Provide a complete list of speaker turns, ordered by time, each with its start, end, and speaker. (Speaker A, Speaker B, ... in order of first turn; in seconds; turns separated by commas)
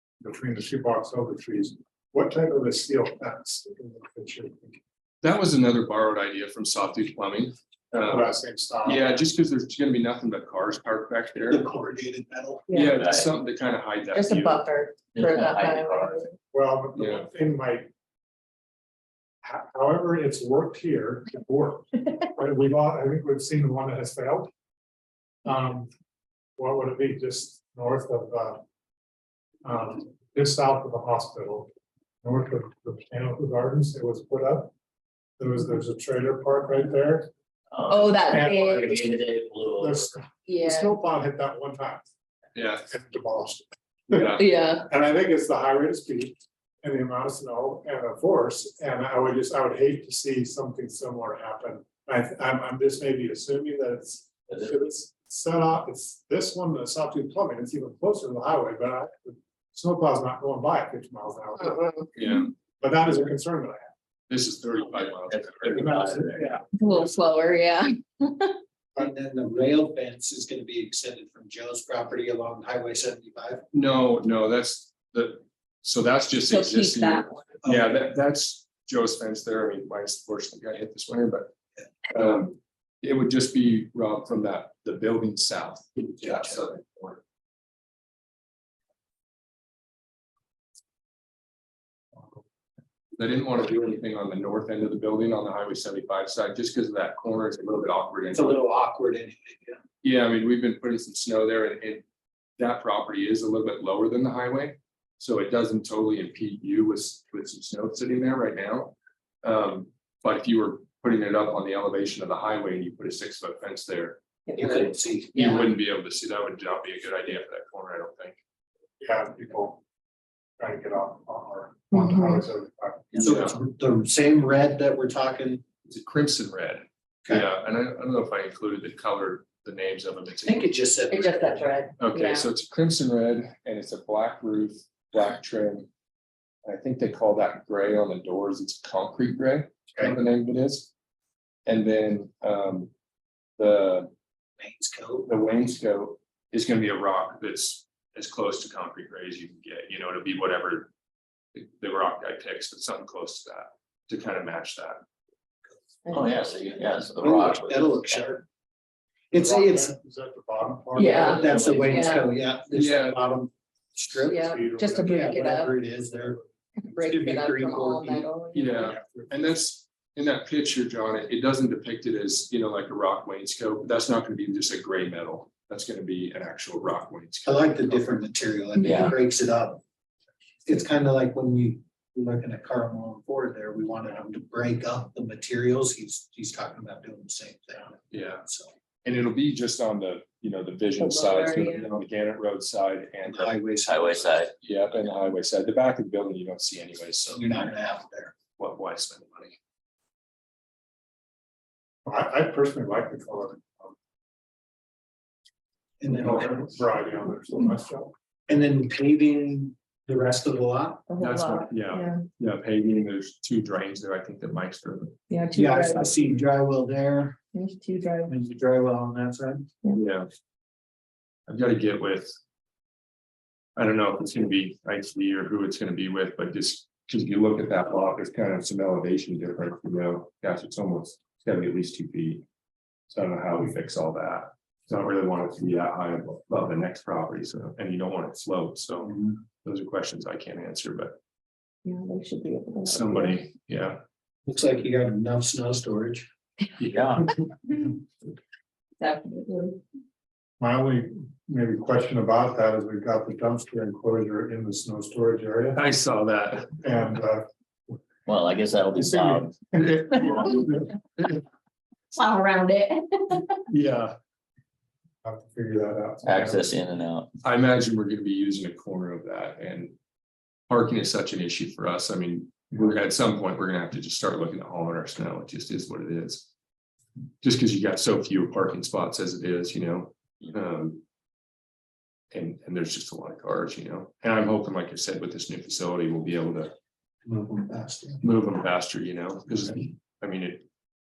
Speaker A: 0.2-4.8, Speaker B: 5.2-11.7, Speaker A: 8.0-9.2, Speaker C: 11.5-12.7, Speaker D: 12.7-13.0, Speaker B: 12.7-14.7, Speaker E: 12.9-13.3, Speaker D: 14.1-16.4, Speaker E: 15.2-16.3, Speaker A: 16.5-17.9, Speaker B: 17.0-17.3, Speaker A: 19.4-24.5, Speaker A: 25.4-25.9, Speaker A: 26.6-28.6, Speaker A: 29.6-31.7, Speaker A: 32.2-34.7, Speaker A: 35.4-37.3, Speaker E: 37.7-40.1, Speaker D: 37.9-38.9, Speaker A: 38.3-39.1, Speaker A: 39.8-42.1, Speaker D: 40.5-41.0, Speaker B: 42.5-42.9, Speaker A: 42.9-62.0, Speaker B: 44.1-44.5, Speaker D: 44.4-44.9, Speaker B: 62.2-62.5, Speaker A: 62.8-63.9, Speaker B: 64.3-66.4, Speaker E: 65.3-66.4, Speaker A: 65.7-66.7, Speaker D: 66.7-68.6, Speaker C: 69.0-73.7, Speaker B: 73.7-81.5, Speaker D: 76.5-77.6, Speaker C: 77.6-78.0, Speaker B: 82.1-87.2, Speaker C: 86.2-86.5, Speaker B: 93.2-98.6, Speaker C: 98.3-99.8, Speaker B: 100.0-102.0, Speaker B: 102.6-114.2, Speaker D: 114.5-115.7, Speaker C: 114.6-115.3, Speaker B: 115.3-118.4, Speaker A: 119.0-119.8, Speaker A: 120.6-123.4, Speaker D: 121.9-122.5, Speaker C: 123.1-125.6, Speaker B: 123.2-123.6, Speaker B: 125.9-130.7, Speaker C: 130.4-131.8, Speaker D: 131.1-132.5, Speaker B: 132.0-135.9, Speaker B: 136.7-140.9, Speaker B: 141.7-142.9, Speaker B: 143.6-144.1, Speaker C: 144.6-145.3, Speaker B: 145.3-150.9, Speaker B: 151.5-155.0, Speaker D: 156.1-156.5, Speaker E: 156.1-158.2, Speaker C: 157.2-158.4, Speaker C: 159.3-159.9, Speaker A: 159.3-162.0, Speaker D: 160.9-162.3, Speaker C: 161.2-164.5, Speaker E: 161.4-162.1, Speaker B: 162.7-163.2, Speaker D: 164.2-165.7, Speaker A: 164.3-165.3, Speaker C: 165.0-166.4, Speaker A: 166.2-166.4, Speaker D: 166.8-169.0, Speaker C: 167.0-168.3, Speaker B: 168.5-178.2, Speaker A: 168.7-169.5, Speaker C: 177.4-179.8, Speaker D: 178.8-179.1, Speaker E: 178.8-179.1, Speaker C: 180.7-187.9, Speaker B: 188.1-188.4, Speaker C: 188.5-188.7, Speaker B: 189.1-193.6, Speaker D: 191.0-192.0, Speaker C: 193.2-194.4, Speaker E: 193.9-194.5, Speaker B: 194.6-197.5, Speaker C: 197.3-198.3, Speaker B: 198.6-199.6, Speaker A: 202.1-203.9, Speaker C: 206.0-206.7, Speaker A: 206.1-208.1, Speaker C: 208.5-211.0, Speaker D: 211.1-212.3, Speaker B: 211.2-215.2, Speaker D: 215.3-216.3, Speaker C: 215.5-217.4, Speaker D: 217.5-218.3, Speaker C: 218.3-219.7, Speaker B: 219.9-220.3, Speaker B: 221.5-222.4, Speaker B: 223.8-232.4, Speaker B: 233.1-241.2, Speaker D: 241.8-243.5, Speaker B: 242.8-244.0, Speaker C: 244.5-246.3, Speaker E: 246.8-247.3, Speaker D: 249.0-249.8, Speaker A: 250.6-255.8, Speaker B: 255.8-256.8, Speaker A: 256.8-258.0, Speaker E: 258.3-259.6, Speaker A: 258.9-260.9, Speaker B: 259.7-261.4, Speaker D: 262.1-263.6, Speaker B: 263.7-264.2, Speaker A: 265.2-266.8, Speaker E: 266.2-267.3, Speaker B: 267.4-269.9, Speaker B: 270.7-276.5, Speaker B: 277.4-281.0, Speaker B: 282.3-286.7, Speaker C: 287.2-288.2, Speaker B: 288.2-290.6